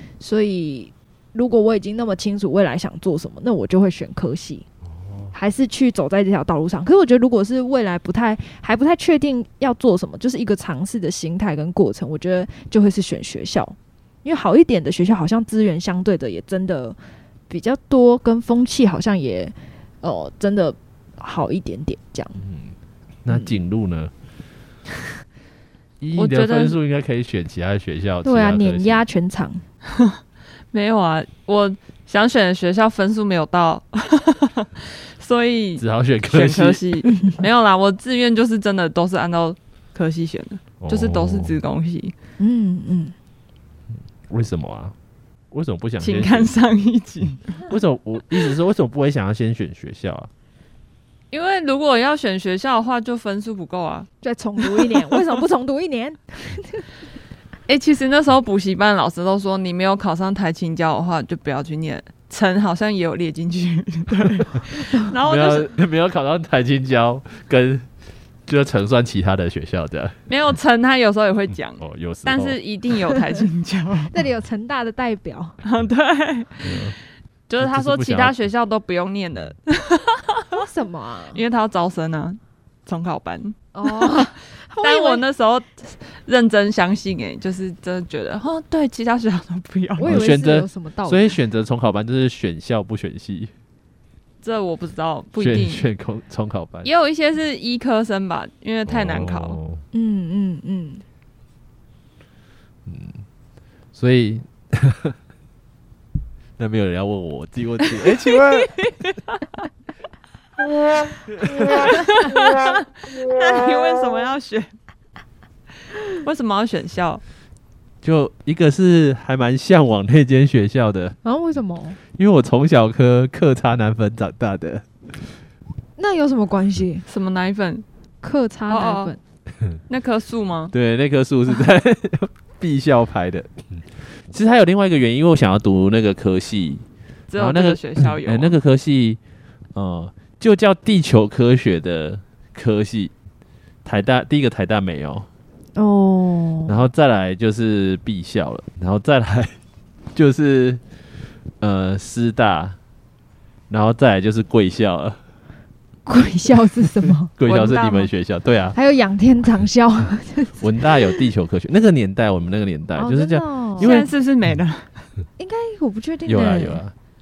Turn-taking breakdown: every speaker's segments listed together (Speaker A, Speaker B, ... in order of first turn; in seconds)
Speaker A: 0.2-4.7, 5.3-17.0, 17.5-22.4, 23.3-23.5, 28.2-29.6, 37.1-37.4, 42.4-43.1, 54.2-56.9, 74.1-75.5, 80.5-81.4, 83.7-85.2, 90.0-91.4, 99.9-101.0, 121.2-122.0, 126.0-127.0, 128.2-129.2, 145.8-146.8, 156.1-157.3, 158.7-161.2, 162.9-164.0, 165.4-166.8
Speaker B: 5.1-5.3, 22.4-24.1, 26.0-29.0, 35.8-36.9, 40.8-41.6, 44.3-44.9, 45.5-46.5, 47.7-50.3, 65.2-67.9, 68.5-70.2, 71.8-72.5, 76.6-77.0, 77.6-78.3, 90.0-93.5, 95.3-96.9, 98.9-99.8, 102.8-103.2, 103.9-105.2, 106.6-108.8, 111.3-111.9, 118.0-121.2, 122.1-124.9, 130.7-133.7, 134.3-136.8, 137.3-139.2, 139.7-143.1, 143.8-145.3, 146.7-149.6, 150.1-150.8, 151.6-152.8, 153.7-155.2, 157.3-158.8, 160.6-164.1, 166.3-166.9
Speaker C: 26.1-26.8, 30.7-42.1, 46.0-47.6, 51.3-55.0, 57.7-65.7, 70.3-74.1, 75.6-76.9, 77.5-80.6, 81.3-90.3, 94.4-95.9, 96.8-99.6, 108.3-109.1, 111.7-114.7, 116.0-117.2, 127.1-127.8, 128.7-129.1, 129.9-130.7, 137.3-138.5, 157.4-158.1, 163.8-164.9